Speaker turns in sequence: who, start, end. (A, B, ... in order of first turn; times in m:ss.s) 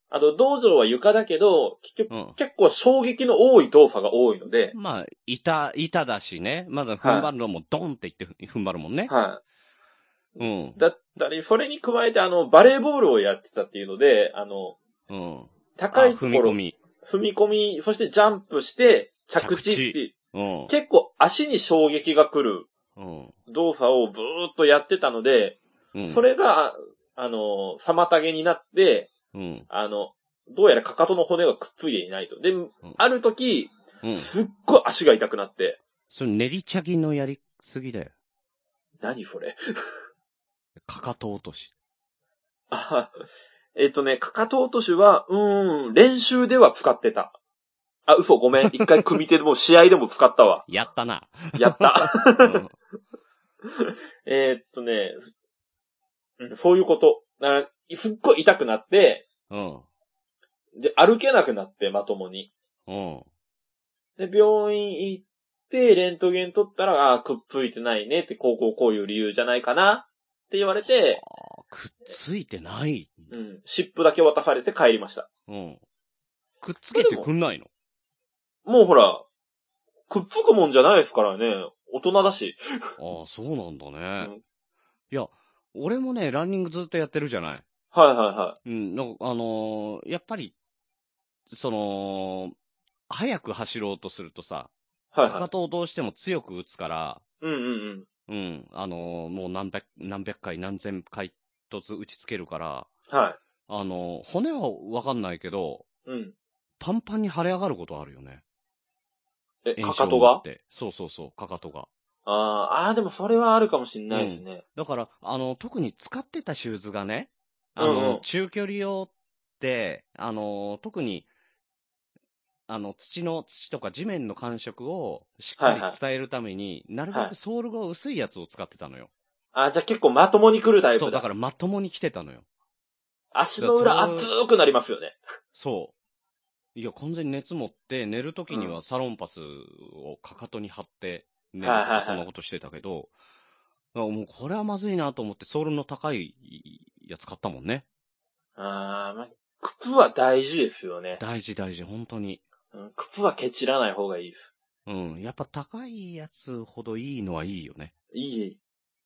0:00.1-0:04.7 A
0:02.1-0:02.4 B
0:04.7-0:09.1 B
0:07.0-0:07.3 A
0:09.1-0:09.4 A
0:10.4-0:10.8 B
0:10.8-0:14.8 A
0:15.1-0:16.8 B
0:15.8-0:20.1 A
0:19.4-0:20.7 B
0:20.7-0:22.7 A
0:23.0-0:23.3 B
0:23.5-0:29.1 A
0:25.9-0:26.2 B
0:29.3-0:29.7 B
0:29.7-0:35.8 A
0:34.0-0:34.3 B
0:36.1-0:38.1 B
0:39.0-0:39.6 A
0:40.8-0:41.7 B
0:42.7-0:43.1 A
0:43.7-0:47.3 A
0:48.1-0:50.7 A
0:50.7-0:52.7 B
0:51.5-0:52.6 A
0:53.8-0:55.3 A
0:56.4-0:59.2 A
0:59.5-0:59.8 B
1:00.8-1:02.5 A
1:02.9-1:03.2 B
1:04.2-1:11.2 A
1:10.8-1:13.3 B
1:13.3-1:15.3 A
1:15.5-1:15.8 B
1:16.6-1:17.7 B
1:16.9-1:17.3 A
1:18.6-1:19.2 A
1:20.1-1:22.6 A
1:23.0-1:24.3 B
1:25.1-1:27.6 B
1:27.9-1:28.6 A
1:28.6-1:30.5 B
1:31.5-1:32.5 B
1:33.1-1:34.7 B
1:35.1-1:35.5 A
1:35.2-1:37.2 B
1:37.4-1:38.0 A
1:38.3-1:42.9 B
1:43.1-1:43.4 A
1:43.7-1:45.8 B
1:46.0-1:46.3 A
1:46.8-1:48.4 B
1:49.6-1:50.4 A
1:49.8-1:51.9 B
1:52.2-1:54.6 A
1:54.1-2:01.3 B
1:57.8-1:58.2 A
2:02.7-2:09.1 B
2:05.6-2:06.0 A
2:09.5-2:11.2 A
2:11.0-2:12.4 B
2:13.3-2:15.2 A
2:13.6-2:14.3 B
2:15.5-2:15.9 B
2:16.7-2:23.1 B
2:18.5-2:18.8 A
2:21.6-2:22.2 A
2:23.9-2:27.8 B
2:28.6-2:31.2 A
2:31.2-2:32.4 B
2:32.7-2:34.5 A
2:34.8-2:37.9 B
2:38.1-2:38.6 A